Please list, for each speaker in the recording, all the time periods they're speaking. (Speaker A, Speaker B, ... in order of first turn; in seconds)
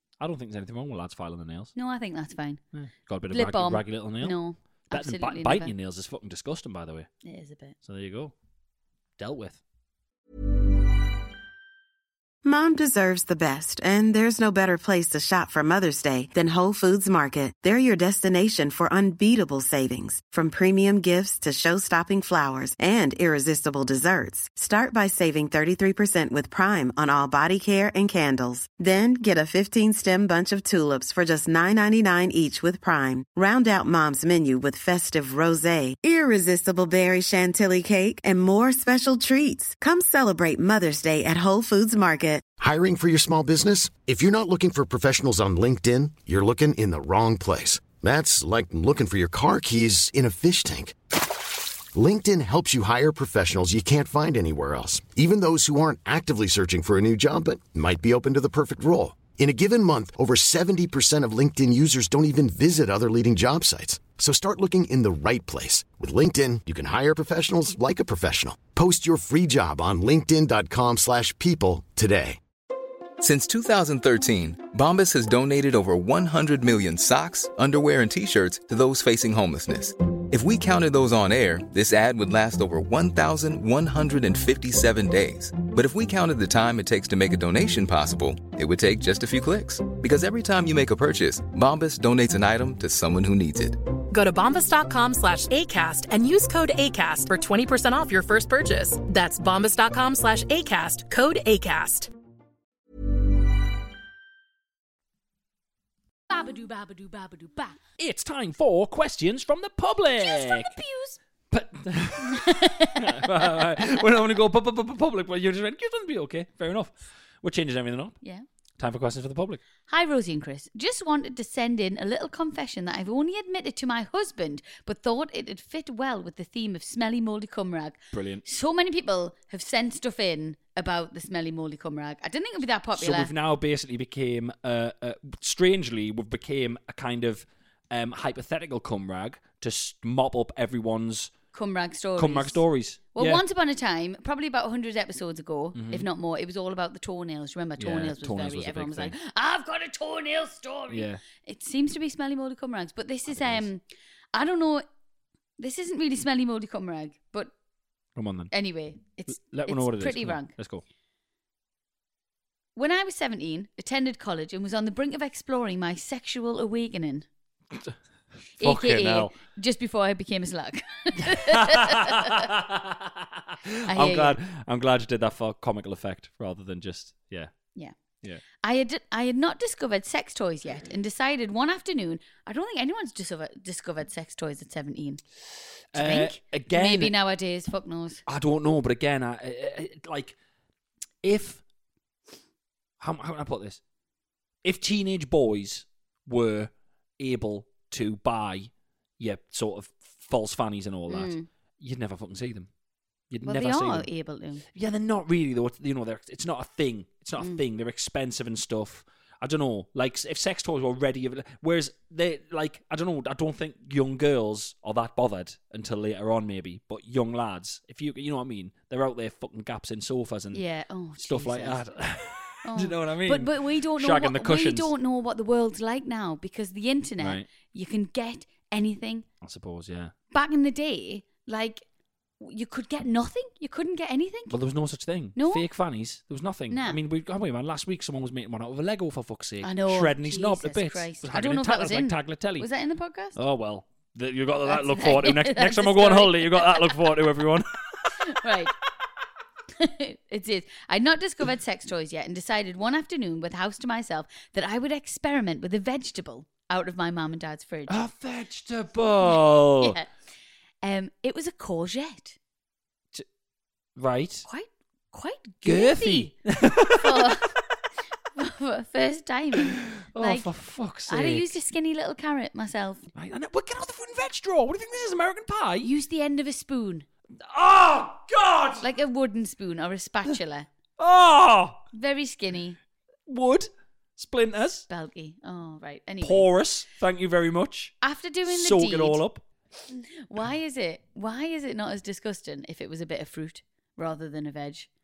Speaker A: 0.2-1.7, 2.7-4.4, 4.9-7.1, 7.8-8.3, 9.2-9.6, 108.0-110.7, 111.5-118.2, 118.8-119.6, 128.1-128.4, 132.9-141.3, 142.2-143.4, 145.7-146.1, 147.8-149.1, 150.9-151.2, 153.3-153.7, 158.2-158.5, 159.3-160.8, 168.6-169.3, 171.2-177.5, 185.9-187.1, 188.2-190.3, 191.2-191.6, 193.0-193.8, 194.6-202.7, 203.3-204.1, 204.7-220.6, 221.2-224.9, 227.2-227.4, 229.4-230.1, 234.5-242.7, 243.3-248.4, 257.9-260.0, 263.9-264.4, 265.6-267.3, 269.8-271.6, 273.1-275.9, 277.4-278.8, 281.0-281.8, 283.3-284.9, 286.2-287.9, 288.4-289.4
Speaker B: 1.7-2.6, 3.3-5.7, 7.2-7.8, 106.3-107.8, 110.2-111.2, 112.2-114.0, 119.9-133.3, 141.5-142.6, 143.1-153.8, 154.3-154.8, 155.6-157.5, 158.5-160.5, 162.8-167.2, 168.6-172.5, 173.9-174.4, 178.6-185.2, 185.9-188.2, 201.1-201.5, 203.4-204.6, 220.5-221.8, 222.6-229.2, 230.3-231.8, 232.4-234.5, 235.3-235.6, 236.7-237.0, 239.6-243.4, 244.7-247.0, 248.2-248.7, 249.8-258.0, 259.2-260.1, 260.8-262.4, 264.4-266.3, 266.9-267.6, 268.3-270.5, 271.1-273.1, 275.8-277.1, 278.8-280.7, 281.9-282.8, 284.9-286.5, 288.0-289.2, 289.9-294.9
Speaker C: 12.4-42.4
Speaker D: 42.6-51.0, 51.9-72.4
Speaker E: 73.2-93.8
Speaker F: 94.1-102.1